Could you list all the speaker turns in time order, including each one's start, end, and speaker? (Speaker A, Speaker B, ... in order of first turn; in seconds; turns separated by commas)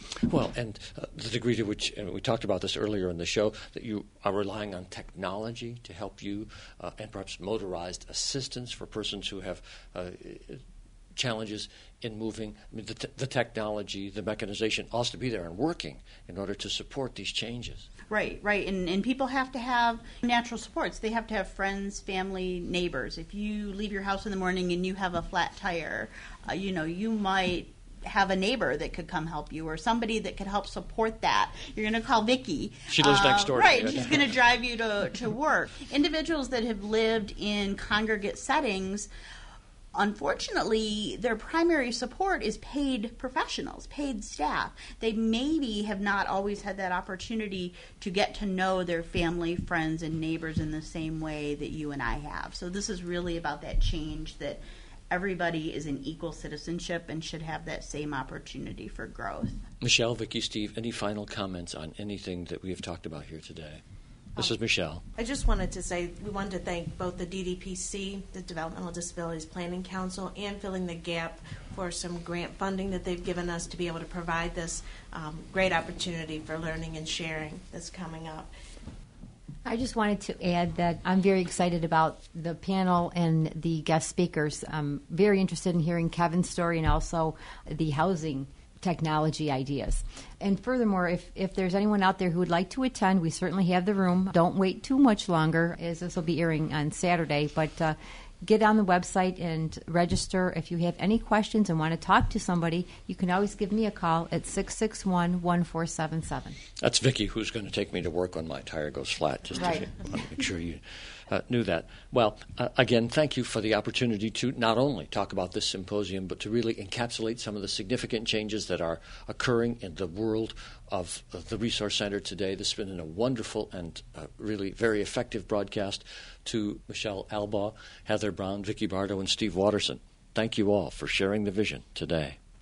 Speaker A: 0.2-10.6, Speaker A: 11.2-17.9, Speaker B: 18.1-39.1, Speaker A: 32.9-34.3, Speaker B: 39.9-59.5, Speaker A: 59.8-63.8, Speaker A: 64.3-65.0, Speaker C: 65.2-78.5, Speaker D: 79.6-106.6, Speaker A: 106.8-132.4, Speaker D: 109.6-109.9